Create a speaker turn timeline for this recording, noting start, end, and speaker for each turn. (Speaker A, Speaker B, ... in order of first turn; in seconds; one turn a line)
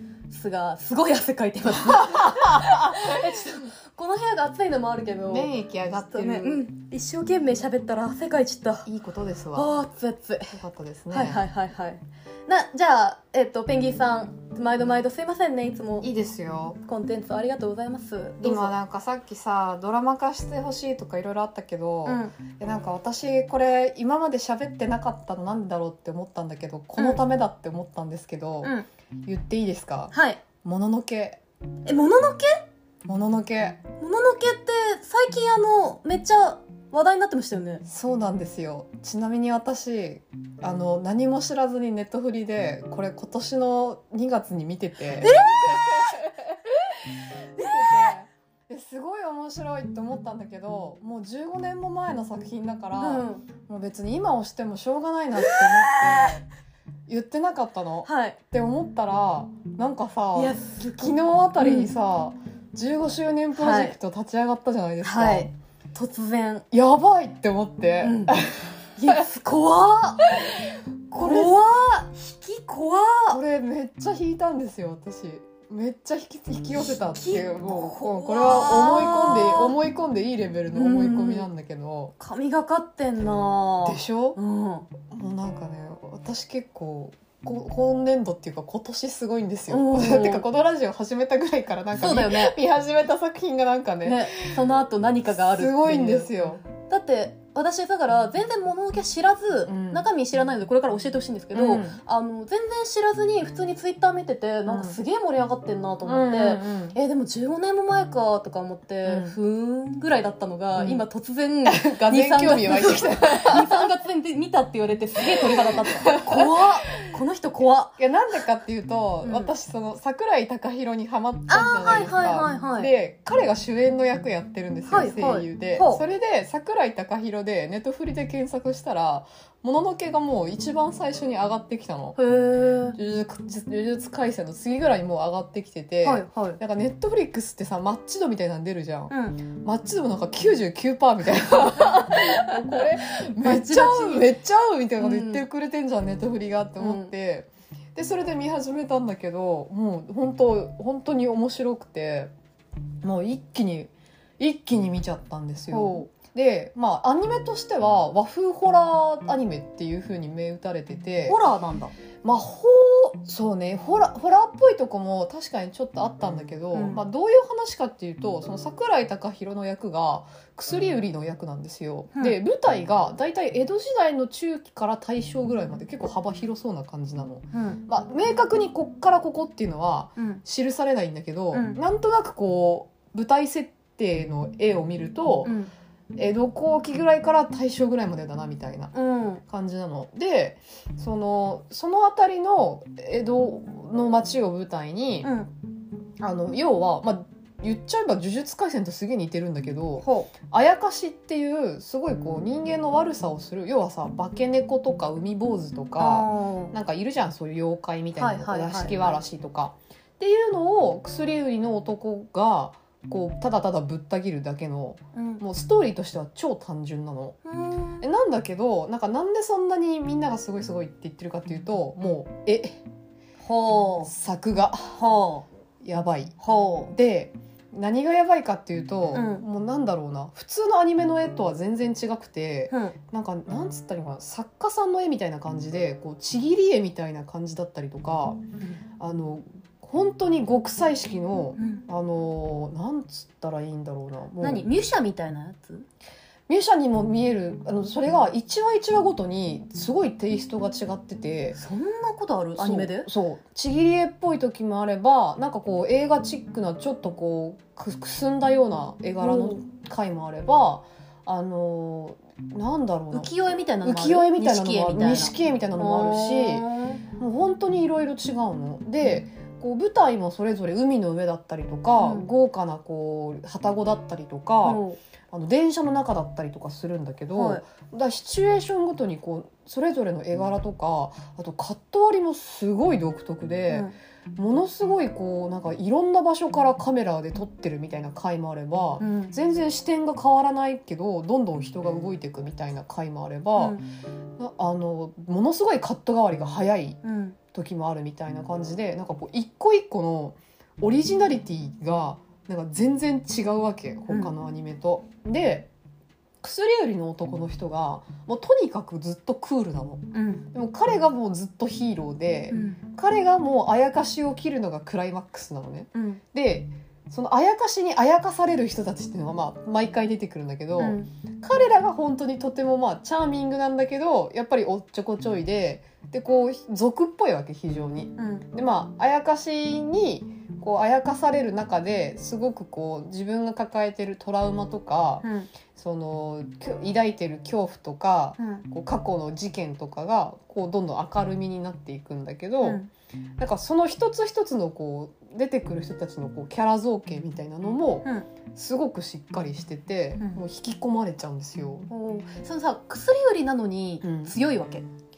Speaker A: 0.3-5.5
Speaker B: 1.7-3.6
Speaker B: 5.3-6.6
Speaker A: 6.1-8.9
Speaker B: 8.8-9.7
Speaker A: 9.5-10.6
Speaker B: 10.5-11.4
Speaker A: 11.1-16.1
Speaker B: 16.0-16.8
Speaker A: 16.8-18.7
Speaker B: 18.4-28.7
Speaker A: 22.0-22.3
Speaker A: 27.0-27.2
Speaker A: 28.6-28.9
Speaker B: 29.2-31.4
Speaker A: 30.1-30.4
Speaker A: 31.8-32.6
Speaker B: 33.0-33.8
Speaker A: 34.0-37.8
Speaker B: 37.9-56.4
Speaker A: 45.2-46.2
Speaker A: 47.6-48.1
Speaker A: 53.0-53.5
Speaker A: 55.4-56.4
Speaker B: 57.1-65.5
Speaker A: 58.0-58.4
Speaker A: 60.3-61.9
Speaker A: 63.5-64.0
Speaker A: 65.0-66.6
Speaker B: 66.7-69.2
Speaker A: 68.0-68.4
Speaker A: 69.0-70.3
Speaker B: 70.2-71.6
Speaker A: 71.1-73.4
Speaker B: 73.3-82.1
Speaker A: 76.8-79.8
Speaker A: 80.7-81.5
Speaker A: 82.2-84.9
Speaker B: 83.8-84.4
Speaker B: 85.0-94.6
Speaker A: 89.7-90.4
Speaker A: 91.9-92.5
Speaker A: 94.0-96.3
Speaker B: 95.3-96.6
Speaker A: 96.8-118.0
Speaker B: 99.7-100.0
Speaker B: 101.5-102.0
Speaker B: 104.7-105.0
Speaker B: 106.0-107.0
Speaker B: 109.0-109.3
Speaker B: 110.7-111.0
Speaker B: 111.7-113.8
Speaker B: 115.4-116.6
Speaker B: 118.0-132.2
Speaker A: 119.2-119.5
Speaker A: 121.5-122.9
Speaker A: 124.9-126.0
Speaker A: 132.2-133.0
Speaker B: 132.9-152.3
Speaker A: 136.0-136.6
Speaker A: 139.1-139.4
Speaker A: 142.4-142.8
Speaker A: 143.4-144.3
Speaker A: 145.0-145.4
Speaker A: 146.8-147.1
Speaker B: 153.0-161.4
Speaker A: 155.7-156.1
Speaker A: 161.3-161.9
Speaker B: 162.2-185.5
Speaker A: 166.7-167.0
Speaker A: 177.5-177.8
Speaker A: 180.2-180.4
Speaker A: 181.5-181.8
Speaker A: 185.4-185.7
Speaker B: 186.2-188.9
Speaker A: 188.9-189.4
Speaker B: 189.5-195.3
Speaker A: 195.2-195.5
Speaker B: 196.2-217.4
Speaker A: 200.0-200.3
Speaker A: 206.0-206.7
Speaker A: 208.2-209.2
Speaker A: 215.1-215.4
Speaker A: 217.4-218.0
Speaker B: 218.0-222.8
Speaker A: 223.4-224.1
Speaker B: 224.0-225.0
Speaker A: 224.9-225.4
Speaker B: 225.8-226.3
Speaker A: 226.4-226.9
Speaker B: 226.9-238.4
Speaker A: 229.1-229.4
Speaker A: 232.7-232.9
Speaker B: 239.0-244.7
Speaker A: 241.6-241.8
Speaker A: 244.4-245.9
Speaker B: 246.5-251.6
Speaker A: 251.5-253.1
Speaker B: 252.6-263.3
Speaker A: 259.2-259.6
Speaker A: 263.1-267.0
Speaker B: 263.8-266.6
Speaker B: 267.2-293.8
Speaker A: 272.0-272.3
Speaker A: 274.6-275.0
Speaker A: 277.3-277.6
Speaker A: 289.0-289.3
Speaker A: 293.6-293.8
Speaker B: 294.4-297.0
Speaker A: 297.0-297.4
Speaker B: 297.5-305.7
Speaker B: 306.4-342.8
Speaker A: 310.1-310.5
Speaker A: 312.5-312.8
Speaker A: 315.9-316.2
Speaker A: 320.8-321.1
Speaker A: 328.2-328.4
Speaker A: 335.2-335.5
Speaker A: 338.4-338.6
Speaker A: 342.6-342.9
Speaker B: 343.4-351.9
Speaker A: 351.9-354.8
Speaker B: 354.0-354.3